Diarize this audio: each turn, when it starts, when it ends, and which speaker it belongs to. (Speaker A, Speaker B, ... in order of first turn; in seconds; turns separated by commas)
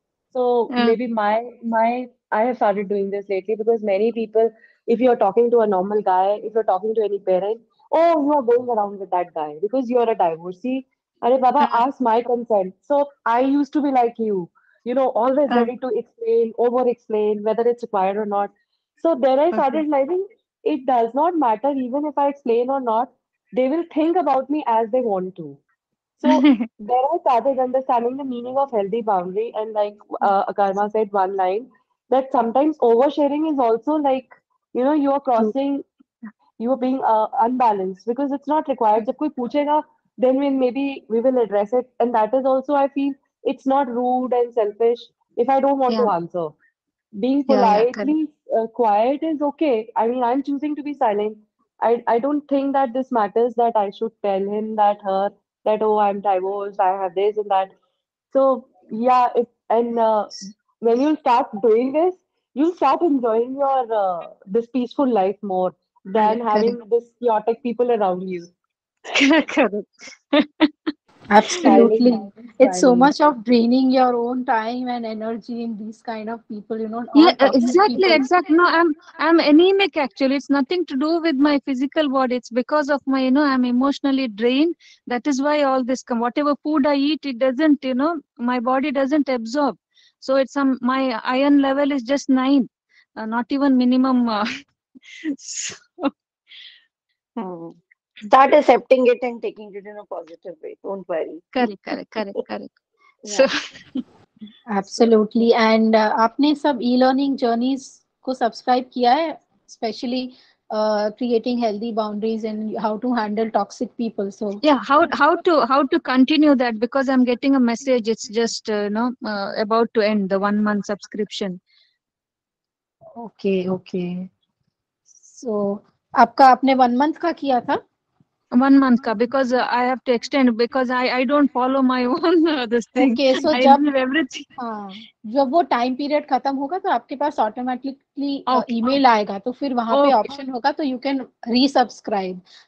Speaker A: 0.3-25.6, Speaker B: 19.5-19.8, Speaker A: 26.2-35.8, Speaker B: 26.2-26.6, Speaker A: 36.6-46.5, Speaker A: 47.2-57.7, Speaker B: 47.5-48.1, Speaker A: 58.3-68.5, Speaker B: 69.1-70.9, Speaker C: 71.3-78.2, Speaker A: 71.6-73.1, Speaker B: 77.2-94.5, Speaker B: 95.1-96.1, Speaker D: 97.4-101.5, Speaker B: 101.5-102.7, Speaker B: 103.3-103.5, Speaker C: 104.7-114.6, Speaker B: 114.6-121.6, Speaker C: 123.2-124.3, Speaker C: 125.3-127.8, Speaker B: 128.5-134.5, Speaker C: 132.9-133.8, Speaker C: 134.6-142.4, Speaker B: 139.9-140.3